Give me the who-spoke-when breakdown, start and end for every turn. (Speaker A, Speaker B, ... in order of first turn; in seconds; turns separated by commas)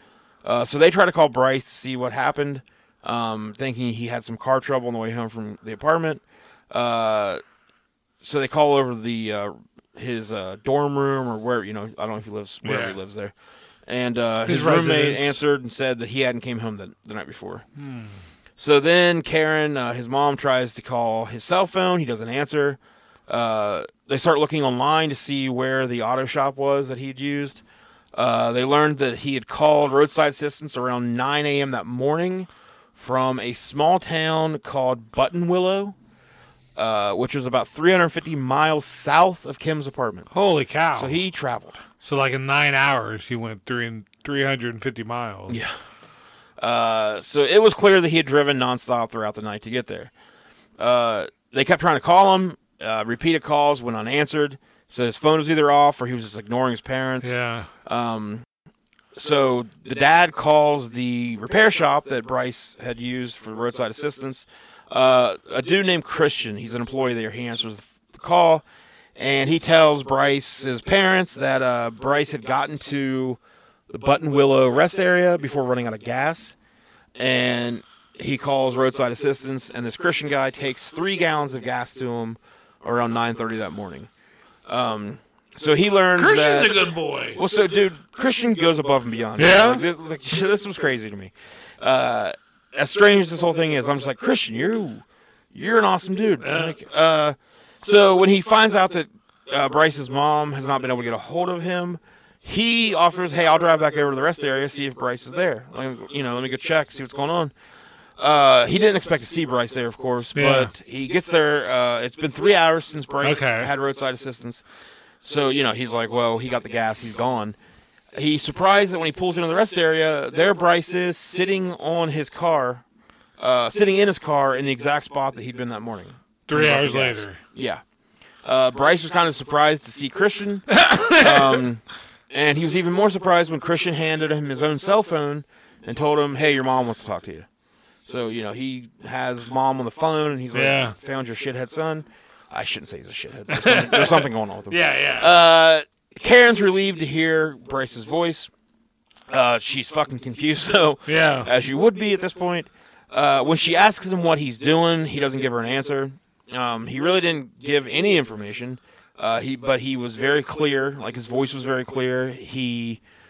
Speaker A: 0.4-7.4, Speaker A: 8.2-13.3, Speaker B: 12.6-13.0, Speaker A: 13.9-17.6, Speaker B: 14.4-15.4, Speaker B: 17.8-18.2, Speaker A: 18.6-27.6, Speaker A: 28.1-35.9, Speaker A: 36.8-40.3, Speaker B: 40.3-41.2, Speaker A: 40.9-41.8, Speaker B: 42.0-45.6, Speaker A: 45.5-45.7, Speaker A: 46.6-50.1, Speaker A: 50.8-58.4, Speaker B: 57.2-57.7, Speaker A: 59.1-68.6, Speaker A: 69.2-76.5, Speaker A: 77.2-84.1, Speaker A: 84.7-107.5, Speaker B: 86.2-87.4, Speaker B: 89.4-89.8, Speaker B: 96.4-96.8, Speaker A: 108.2-114.6, Speaker B: 110.3-110.7, Speaker B: 113.2-113.7, Speaker A: 115.2-117.5, Speaker A: 118.1-122.8, Speaker A: 123.4-127.8, Speaker B: 126.5-127.4, Speaker A: 128.4-137.4, Speaker B: 130.7-131.6, Speaker A: 138.0-148.5, Speaker B: 140.5-140.9, Speaker B: 143.5-145.3, Speaker A: 149.3-163.0, Speaker B: 151.1-151.5